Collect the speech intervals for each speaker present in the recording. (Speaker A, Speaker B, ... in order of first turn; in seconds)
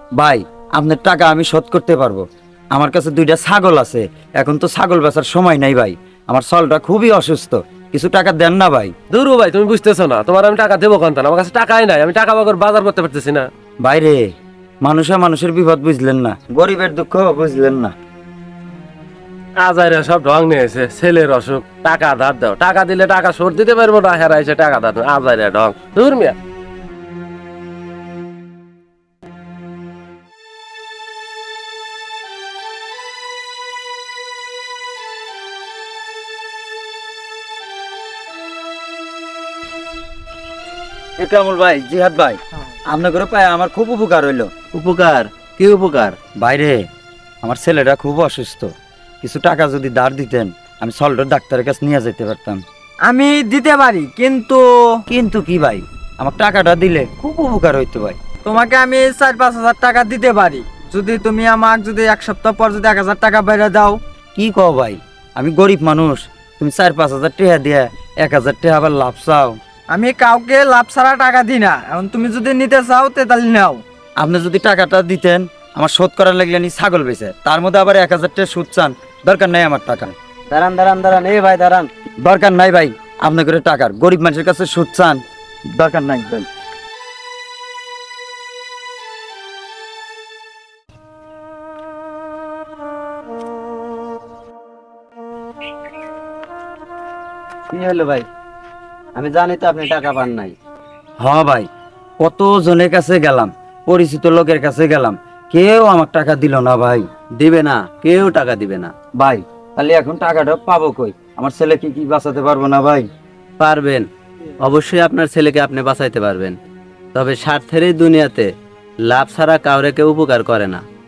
Speaker A: 0.2-8.9, 13.8-17.9, 41.2-44.5, 46.4-46.9, 47.4-52.6, 55.1-58.2, 64.3-69.6, 74.2-80.1, 82.2-86.5, 101.2-101.7, 102.2-107.1, 109.2-113.1
Speaker B: 9.1-13.5, 19.6-26.4
Speaker C: 44.7-46.2, 80.5-81.9, 97.7-98.3, 99.2-100.5, 107.4-108.9, 113.6-114.1, 114.6-116.6, 117.1-118.5, 119.1-120.8
Speaker D: 53.0-55.0, 58.5-64.0, 69.9-73.8